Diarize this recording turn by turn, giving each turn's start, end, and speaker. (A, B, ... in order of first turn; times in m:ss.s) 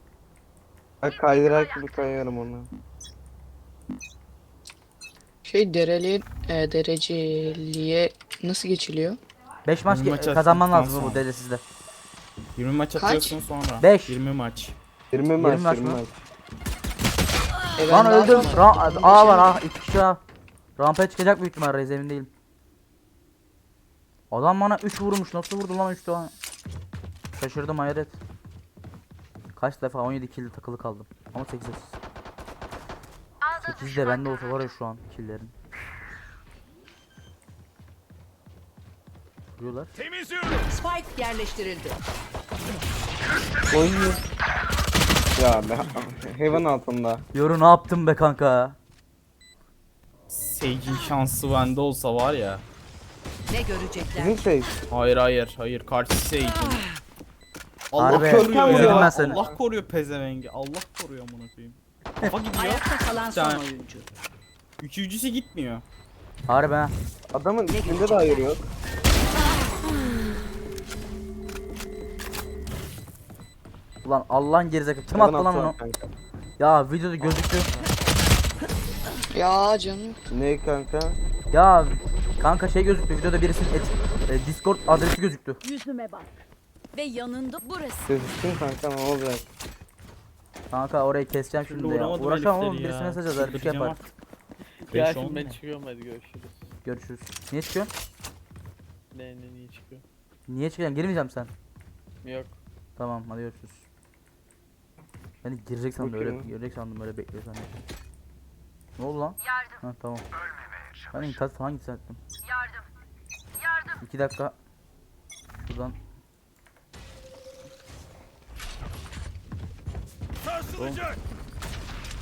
0:01.0-0:02.7 A
0:05.5-0:09.2 B
0:09.6-0:11.6 C
0:09.9-0:11.2 D
0:12.6-0:14.8 D
0:12.9-0:13.4 B
0:13.8-0:14.2 C
0:15.1-0:16.2 A
0:15.4-0:16.0 C
0:17.8-0:19.6 B
0:17.9-0:20.2 C
0:20.8-0:22.3 C
0:24.3-0:26.3 C
0:27.3-0:28.2 C
0:29.6-0:32.0 C
0:33.6-0:35.5 C
0:39.6-0:39.9 C
0:40.6-0:42.0 E
0:43.7-0:44.2 A
0:45.4-0:47.2 A
0:47.3-0:48.8 C
0:50.3-0:52.6 D
0:53.5-0:54.4 E
0:54.1-0:54.7 A
0:54.9-0:56.9 D
0:57.9-1:03.7 D
0:58.0-0:59.4 C
0:58.1-0:59.6 A
1:02.6-1:04.1 E
1:04.8-1:05.8 D
1:06.5-1:06.9 C
1:07.3-1:08.7 A
1:07.8-1:08.4 E
1:14.0-1:15.8 C
1:15.1-1:16.1 A
1:16.6-1:17.7 C
1:19.3-1:20.2 B
1:20.3-1:21.2 A
1:21.5-1:25.6 C
1:25.6-1:26.4 F
1:26.9-1:28.1 F
1:28.1-1:29.4 A
1:30.7-1:34.0 C
1:31.6-1:34.1 D
1:34.9-1:35.6 D
1:35.0-1:36.6 G
1:36.8-1:37.9 C
1:39.1-1:40.0 G
1:40.5-1:41.5 C
1:42.2-1:42.5 G
1:43.0-1:43.9 C
1:45.4-1:47.8 C
1:46.0-1:46.5 A
1:49.0-1:50.2 C
1:51.1-1:52.2 C
1:54.0-1:54.5 C
1:55.6-1:56.0 C
2:00.8-2:01.0 C